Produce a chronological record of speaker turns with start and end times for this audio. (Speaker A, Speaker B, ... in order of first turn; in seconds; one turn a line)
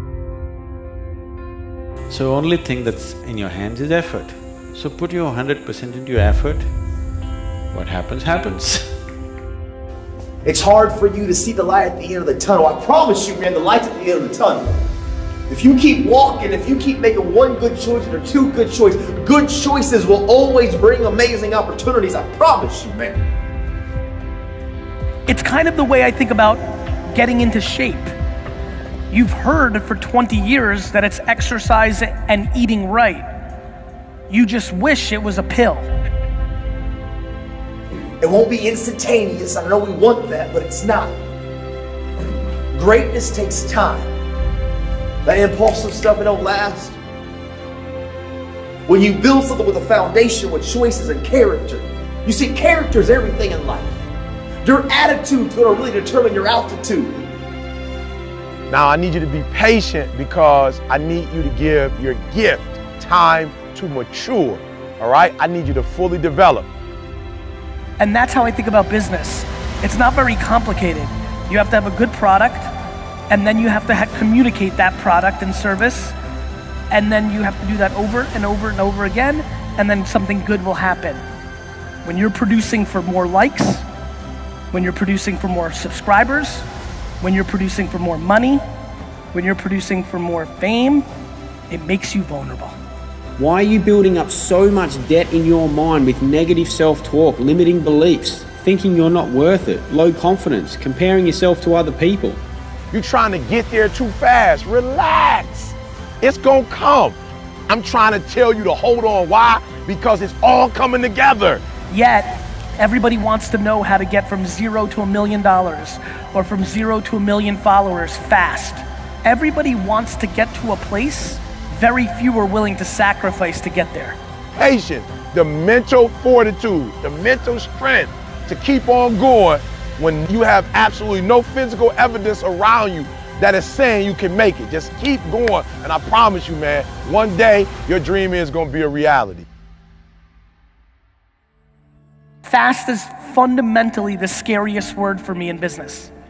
Speaker A: 2.1-6.7
Speaker A: 7.7-8.9
Speaker B: 10.4-14.7
Speaker B: 15.5-23.2
Speaker C: 25.3-28.1
Speaker C: 29.1-33.2
Speaker C: 34.3-35.9
Speaker B: 38.2-41.1
Speaker B: 42.7-44.1
Speaker B: 45.2-47.0
Speaker B: 48.9-54.0
Speaker B: 54.6-57.2
Speaker D: 58.7-66.7
Speaker C: 68.0-72.7
Speaker C: 73.3-76.2
Speaker C: 76.9-81.2
Speaker C: 82.0-83.8
Speaker C: 84.7-86.7
Speaker C: 87.2-88.6
Speaker C: 89.3-91.0
Speaker C: 91.7-92.8
Speaker E: 93.4-102.4
Speaker D: 102.9-107.2
Speaker D: 107.7-111.6
Speaker C: 111.9-124.2
Speaker D: 124.5-139.4
Speaker C: 142.4-146.1